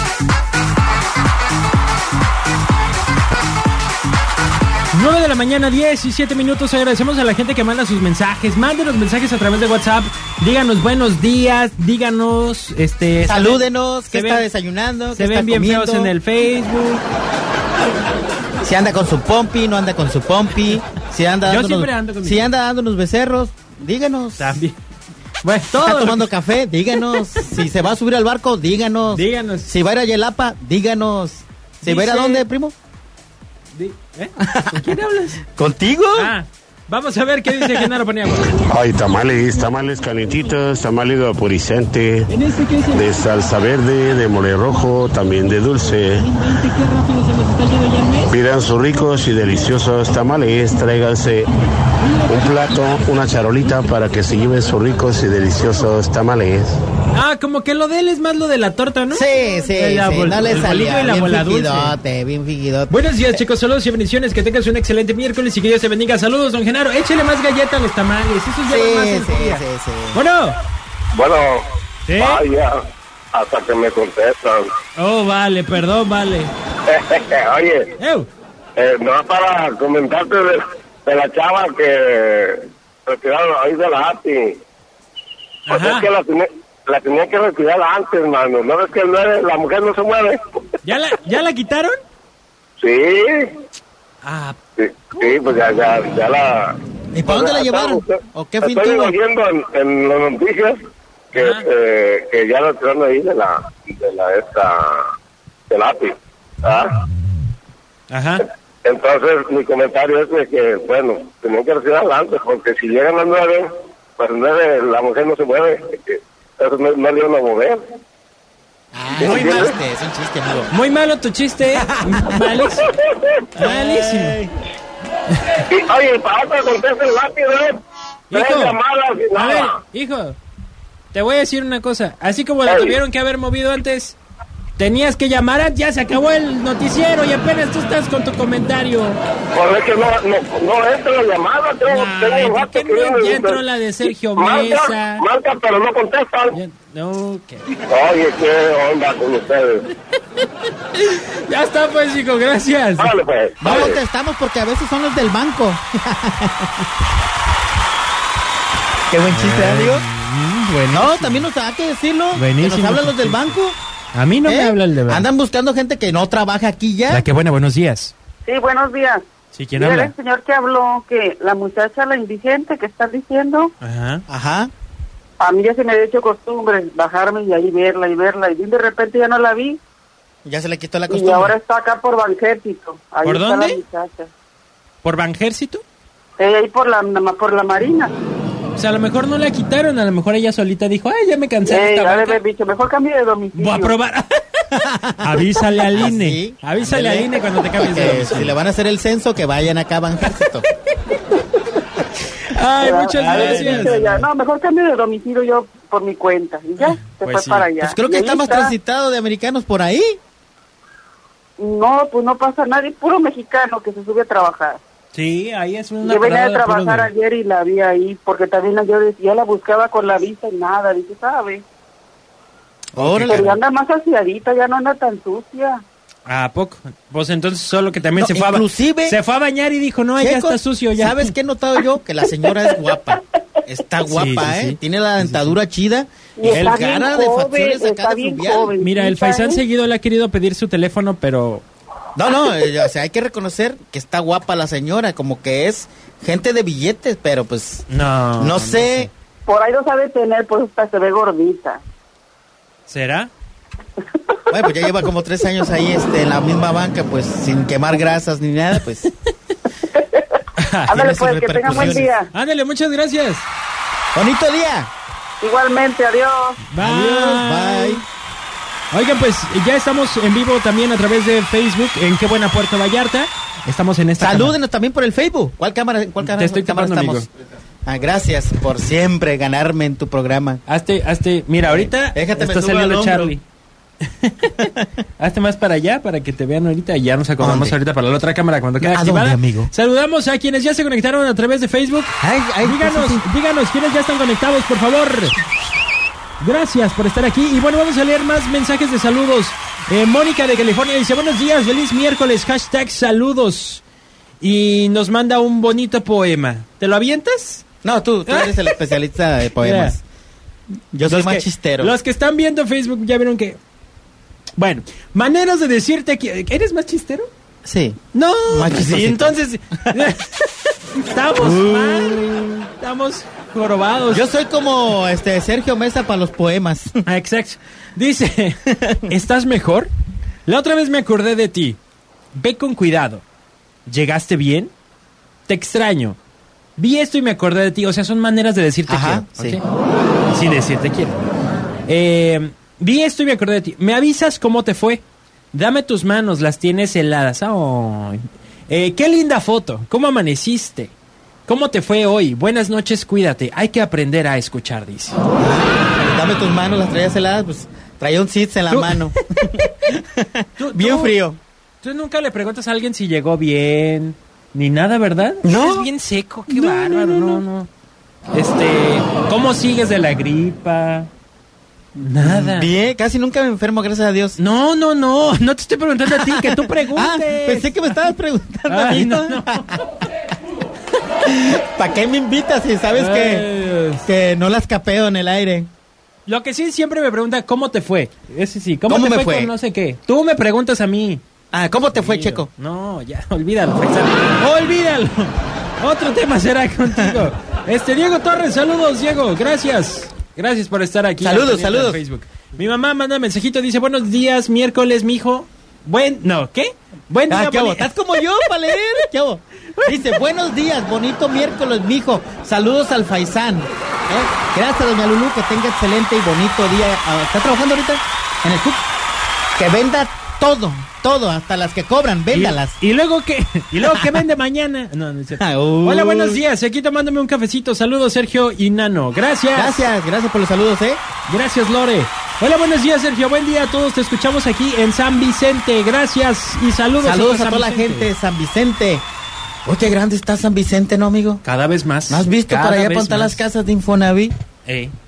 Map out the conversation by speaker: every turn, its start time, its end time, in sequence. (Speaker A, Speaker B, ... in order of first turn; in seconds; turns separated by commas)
Speaker A: 4.9-14.4, Speaker B: 13.2-16.1, Speaker A: 15.1-17.0, Speaker B: 18.6-24.6, Speaker A: 21.4-22.5, Speaker A: 24.4-24.8, Speaker A: 25.4-26.2, Speaker B: 25.7-32.8, Speaker A: 29.1-29.7, Speaker A: 31.9-32.5, Speaker A: 33.7-35.4, Speaker B: 34.4-34.9, Speaker B: 35.6-36.3, Speaker A: 36.2-38.6, Speaker B: 37.5-37.9, Speaker C: 38.5-42.3, Speaker A: 42.3-43.2, Speaker C: 42.9-46.3, Speaker A: 46.2-48.4, Speaker C: 48.3-51.5, Speaker A: 52.0-52.4, Speaker C: 52.3-56.8, Speaker A: 57.1-62.0, Speaker B: 59.1-63.4, Speaker A: 62.9-69.6, Speaker B: 68.7-70.2, Speaker A: 70.1-70.5, Speaker D: 71.2-71.7, Speaker A: 72.1-72.4, Speaker D: 72.2-72.8, Speaker D: 73.3-74.7, Speaker A: 75.0-76.5, Speaker D: 76.9-77.9, Speaker A: 78.0-78.3, Speaker D: 78.8-84.5, Speaker A: 85.7-86.1, Speaker D: 85.7-90.4, Speaker A: 90.8-92.0, Speaker D: 92.8-93.5, Speaker A: 94.2-94.6, Speaker D: 94.8-96.7, Speaker B: 97.1-99.2, Speaker D: 97.2-100.8, Speaker D: 101.3-105.0, Speaker A: 101.3-101.6, Speaker D: 105.7-106.1, Speaker D: 106.6-106.9, Speaker A: 108.1-108.4, Speaker D: 108.8-113.7, Speaker D: 114.2-117.8, Speaker B: 118.9-120.7, Speaker D: 119.2-119.7, Speaker A: 120.7-122.9, Speaker B: 121.8-122.5, Speaker B: 123.6-124.5, Speaker A: 123.6-124.4, Speaker D: 125.7-127.8, Speaker A: 128.3-128.8, Speaker D: 128.3-129.8, Speaker A: 129.3-130.4, Speaker A: 131.1-134.2, Speaker D: 132.7-133.0, Speaker A: 134.8-139.2, Speaker D: 139.6-143.6, Speaker A: 141.9-145.2, Speaker D: 144.4-146.6, Speaker A: 146.5-147.7, Speaker D: 147.9-149.9, Speaker A: 151.0-153.2, Speaker D: 153.0-154.0, Speaker B: 153.6-156.9, Speaker B: 159.1-160.1, Speaker A: 159.3-161.5, Speaker B: 160.9-163.8, Speaker A: 162.3-163.6, Speaker A: 164.1-165.3, Speaker B: 164.4-167.2, Speaker A: 167.1-168.1, Speaker E: 168.4-169.2, Speaker A: 169.5-170.1, Speaker E: 169.8-173.7, Speaker A: 173.8-174.2, Speaker B: 174.3-174.7, Speaker E: 175.4-179.8, Speaker B: 180.4-181.6, Speaker E: 181.1-184.3, Speaker A: 183.2-183.8, Speaker A: 185.0-185.8, Speaker E: 186.4-188.1, Speaker A: 188.8-192.4, Speaker E: 191.7-193.9, Speaker A: 193.6-194.4, Speaker B: 194.7-200.7, Speaker A: 195.2-198.6, Speaker A: 202.4-204.2, Speaker E: 202.8-208.7, Speaker B: 203.1-204.2, Speaker A: 206.8-207.7, Speaker B: 207.8-210.2, Speaker E: 211.6-214.8, Speaker A: 215.1-217.1, Speaker E: 216.1-221.6, Speaker B: 222.9-223.5, Speaker A: 222.9-223.6, Speaker E: 223.3-225.8, Speaker A: 226.2-231.3, Speaker B: 228.2-229.2, Speaker B: 230.2-238.7, Speaker A: 234.0-235.6, Speaker E: 236.4-239.6, Speaker A: 236.5-237.1, Speaker A: 238.8-241.7, Speaker B: 242.2-247.9, Speaker A: 247.9-249.1, Speaker B: 248.4-249.1, Speaker E: 249.4-251.8, Speaker A: 252.9-253.3, Speaker B: 254.5-259.1, Speaker E: 259.9-260.3, Speaker A: 260.6-261.0, Speaker B: 260.9-262.1, Speaker E: 260.9-262.3, Speaker A: 261.7-263.5, Speaker B: 264.1-264.9, Speaker E: 265.4-266.6, Speaker A: 266.7-268.0, Speaker B: 266.8-268.1, Speaker A: 268.9-274.6, Speaker B: 274.2-277.3, Speaker A: 276.2-277.3, Speaker B: 277.9-280.6, Speaker A: 280.7-283.4, Speaker B: 281.6-283.3, Speaker A: 284.2-295.3, Speaker B: 287.4-287.8, Speaker B: 288.8-289.7, Speaker B: 292.2-293.3, Speaker A: 296.4-303.8, Speaker A: 304.4-307.6, Speaker B: 307.8-310.0, Speaker A: 308.3-308.8, Speaker A: 309.6-309.9, Speaker B: 310.9-312.0, Speaker A: 311.0-313.6, Speaker A: 314.6-317.3, Speaker B: 317.6-320.0, Speaker A: 318.1-324.2, Speaker B: 321.4-322.6, Speaker B: 324.1-326.9, Speaker A: 327.1-329.9, Speaker A: 330.4-331.8, Speaker A: 332.4-333.2, Speaker A: 333.9-334.7, Speaker A: 335.5-336.2, Speaker A: 336.8-339.6, Speaker B: 338.9-339.6, Speaker A: 340.3-341.2, Speaker A: 341.9-350.9, Speaker A: 351.5-355.2, Speaker B: 355.4-361.4, Speaker A: 358.7-359.1, Speaker A: 360.6-361.2, Speaker A: 361.8-367.7, Speaker B: 365.4-365.9, Speaker B: 366.5-367.4, Speaker A: 368.3-371.1, Speaker B: 372.0-374.4, Speaker A: 372.0-372.7, Speaker A: 374.4-377.8, Speaker B: 376.1-379.8, Speaker A: 378.7-379.7, Speaker B: 381.3-383.5, Speaker A: 382.9-384.1, Speaker B: 384.0-385.7, Speaker A: 386.3-391.2, Speaker B: 388.9-389.5, Speaker B: 391.5-392.5, Speaker A: 391.9-407.9, Speaker B: 401.2-402.0, Speaker B: 407.3-418.8, Speaker B: 419.6-422.8, Speaker A: 422.3-429.9, Speaker B: 423.8-424.2, Speaker B: 425.3-426.4, Speaker B: 429.5-431.0, Speaker A: 431.3-438.1, Speaker B: 437.0-439.1, Speaker B: 439.6-441.4, Speaker A: 441.4-443.4, Speaker B: 442.1-444.3, Speaker A: 444.7-444.9